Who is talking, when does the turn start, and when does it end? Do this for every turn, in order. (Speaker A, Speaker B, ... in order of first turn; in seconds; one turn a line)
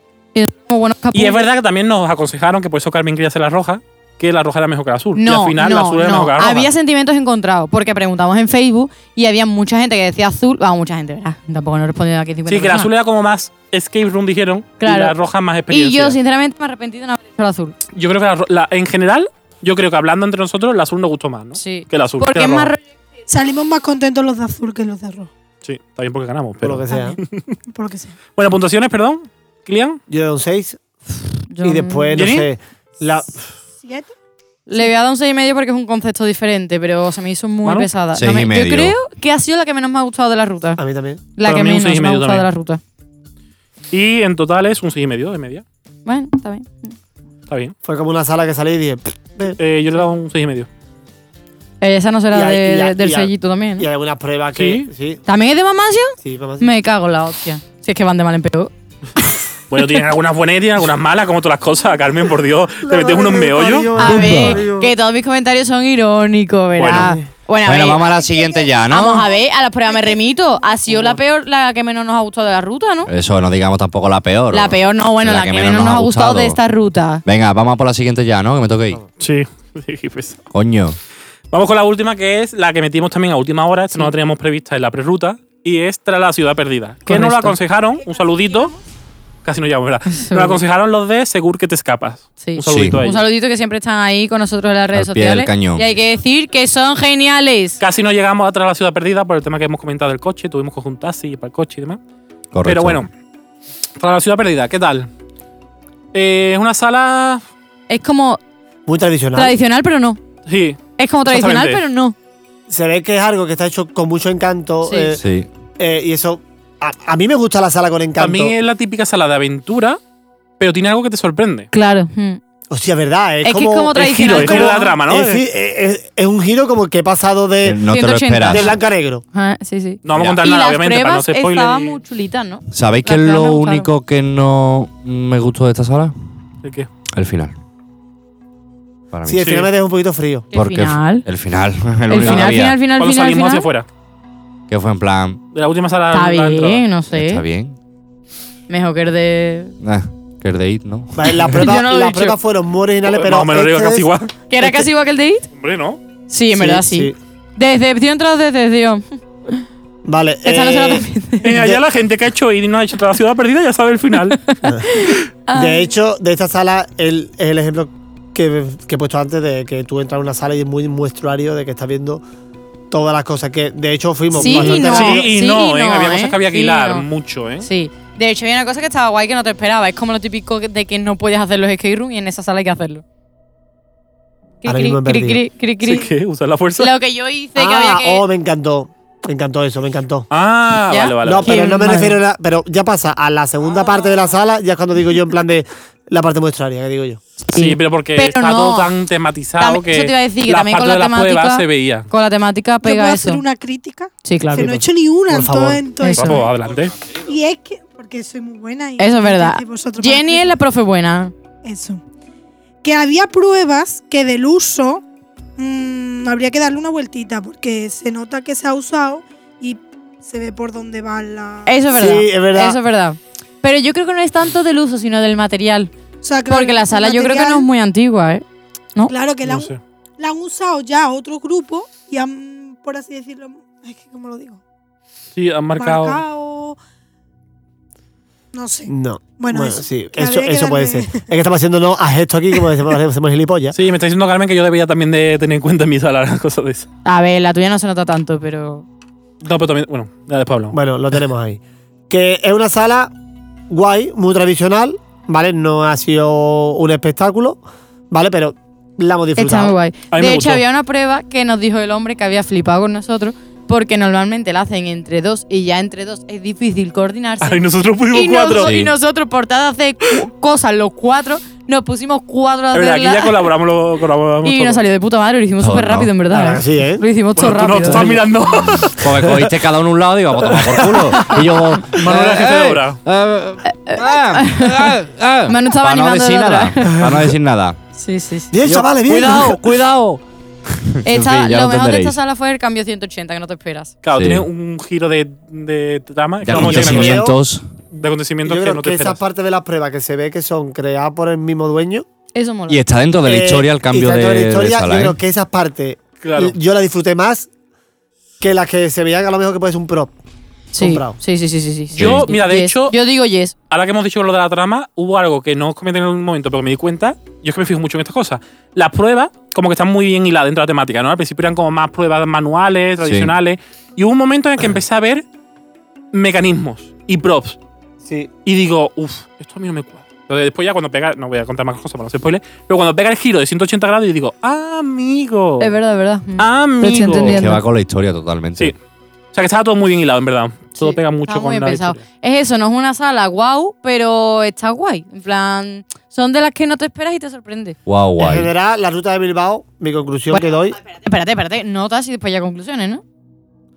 Speaker A: 0.3-1.5
Speaker B: 1.1-6.7
Speaker A: 5.2-12.9
Speaker B: 12.5-16.2
Speaker A: 14.8-15.2
Speaker A: 15.7-17.8
Speaker B: 17.9-22.7
Speaker A: 21.6-22.8
Speaker C: 23.3-25.3
Speaker B: 25.6-27.4
Speaker D: 26.6-27.2
Speaker C: 26.9-28.1
Speaker B: 28.4-30.0
Speaker D: 30.1-30.8
Speaker A: 31.5-32.3
Speaker D: 31.6-33.3
Speaker B: 32.2-32.5
Speaker C: 33.8-34.1
Speaker A: 34.7-40.8
Speaker E: 38.1-39.0
Speaker D: 40.8-41.6
Speaker A: 41.4-42.8
Speaker B: 41.5-42.5
Speaker B: 43.9-45.6
Speaker A: 46.1-47.0
Speaker B: 47.5-47.7
Speaker D: 47.9-49.6
Speaker B: 49.6-50.7
Speaker A: 51.8-53.9
Speaker D: 52.3-55.2
Speaker B: 54.5-54.9
Speaker A: 55.3-58.7
Speaker D: 56.2-56.7
Speaker B: 59.7-64.5
Speaker D: 62.8-64.9
Speaker A: 64.0-68.2
Speaker E: 64.2-64.5
Speaker B: 66.8-67.1
Speaker D: 66.8-67.3
Speaker E: 67.6-69.3
Speaker A: 68.8-73.1
Speaker D: 70.9-71.2
Speaker E: 73.1-76.6
Speaker A: 74.5-77.2
Speaker E: 77.2-79.0
Speaker B: 79.2-80.4
Speaker E: 80.5-81.0
Speaker B: 81.5-88.8
Speaker A: 87.1-87.6
Speaker C: 88.0-88.8
Speaker B: 89.4-93.2
Speaker A: 90.1-90.6
Speaker A: 92.4-97.8
Speaker E: 92.7-93.0
Speaker E: 94.9-95.8
Speaker B: 97.8-102.0
Speaker E: 102.5-103.0
Speaker B: 102.7-103.1
Speaker B: 104.0-105.1
Speaker B: 106.1-107.4
Speaker A: 107.9-108.4
Speaker D: 108.9-109.5
Speaker A: 109.3-110.2
Speaker B: 110.5-111.8
Speaker A: 111.0-112.2
Speaker D: 112.7-115.2
Speaker A: 114.8-115.2
Speaker E: 115.2-115.5
Speaker D: 115.8-118.5
Speaker B: 118.2-120.0
Speaker B: 120.6-121.7
Speaker A: 121.7-122.4
Speaker D: 122.7-127.9
Speaker A: 123.4-125.0
Speaker B: 124.0-125.4
Speaker E: 127.6-128.8
Speaker A: 127.9-128.7
Speaker D: 128.5-129.2
Speaker A: 129.3-133.9
Speaker B: 130.1-132.0
Speaker E: 132.7-136.1
Speaker B: 136.6-136.9
Speaker E: 137.1-137.5
Speaker E: 139.1-139.5
Speaker D: 139.3-140.5
Speaker B: 139.4-139.7
Speaker A: 140.5-141.3
Speaker E: 140.5-142.8
Speaker A: 142.1-143.7
Speaker B: 142.2-143.9
Speaker E: 144.7-145.4
Speaker B: 145.5-146.8
Speaker A: 146.1-147.4
Speaker E: 147.1-147.8
Speaker A: 148.7-149.8
Speaker E: 149.8-151.5
Speaker D: 151.2-154.8
Speaker A: 151.5-152.4
Speaker B: 153.1-154.3
Speaker A: 154.5-155.5
Speaker B: 155.5-156.0
Speaker A: 156.3-159.0
Speaker D: 156.5-157.2
Speaker D: 160.1-161.8
Speaker A: 160.4-161.5
Speaker B: 161.4-164.4
Speaker A: 164.4-165.9
Speaker D: 164.6-165.0
Speaker D: 165.5-172.2
Speaker D: 172.9-175.3
Speaker A: 174.3-177.1
Speaker B: 174.3-177.7
Speaker A: 177.6-183.0
Speaker A: 184.6-186.1
Speaker D: 184.7-185.4
Speaker B: 185.8-186.9
Speaker A: 186.8-188.2
Speaker D: 187.6-190.3
Speaker B: 190.3-191.9
Speaker A: 190.9-192.2
Speaker D: 191.2-197.2
Speaker A: 197.4-198.9
Speaker B: 197.6-202.1
Speaker A: 199.6-203.4
Speaker C: 202.8-206.5
Speaker A: 204.2-204.7
Speaker D: 204.5-205.8
Speaker A: 206.0-206.4
Speaker B: 206.2-207.0
Speaker C: 207.1-210.6
Speaker A: 209.0-211.3
Speaker C: 211.6-212.0
Speaker C: 212.8-215.0
Speaker C: 215.6-221.8
Speaker A: 221.7-225.9
Speaker D: 221.9-222.8
Speaker C: 226.2-227.7
Speaker A: 226.5-228.4
Speaker C: 229.1-234.6
Speaker B: 229.4-229.8
Speaker B: 235.3-236.2
Speaker C: 235.8-236.8
Speaker C: 238.5-241.3
Speaker D: 238.9-243.8
Speaker B: 243.7-246.9
Speaker A: 247.1-248.8
Speaker B: 249.4-250.8
Speaker D: 250.7-253.1
Speaker D: 253.7-259.8
Speaker A: 259.4-273.5
Speaker B: 260.1-260.6
Speaker B: 267.4-268.8
Speaker E: 268.6-268.9
Speaker B: 272.7-274.8
Speaker A: 274.4-278.2
Speaker E: 275.6-276.1
Speaker D: 276.3-277.0
Speaker B: 277.4-279.5
Speaker E: 278.6-287.8
Speaker B: 280.4-283.0
Speaker A: 283.6-287.1
Speaker D: 287.0-287.3
Speaker A: 288.0-288.5
Speaker D: 288.5-289.6
Speaker E: 288.6-290.2
Speaker E: 290.9-292.2
Speaker A: 291.1-293.9
Speaker B: 294.0-297.2
Speaker E: 294.1-294.5
Speaker E: 296.4-297.6
Speaker D: 296.5-297.4
Speaker B: 297.9-299.2
Speaker D: 298.5-302.1
Speaker A: 302.4-302.8
Speaker E: 302.7-305.2
Speaker D: 303.2-307.5
Speaker B: 306.2-306.6
Speaker D: 308.4-310.1
Speaker A: 310.7-313.5
Speaker D: 310.8-311.2
Speaker E: 312.0-312.3
Speaker B: 312.0-312.9
Speaker B: 313.7-325.2
Speaker E: 323.0-323.4
Speaker B: 326.1-327.6
Speaker D: 328.1-328.3
Speaker B: 328.4-335.7
Speaker A: 335.6-337.6
Speaker B: 336.4-337.4
Speaker E: 336.9-338.8
Speaker B: 339.3-342.0
Speaker A: 340.8-347.8
Speaker E: 347.9-348.5
Speaker D: 348.2-350.8
Speaker A: 350.3-353.0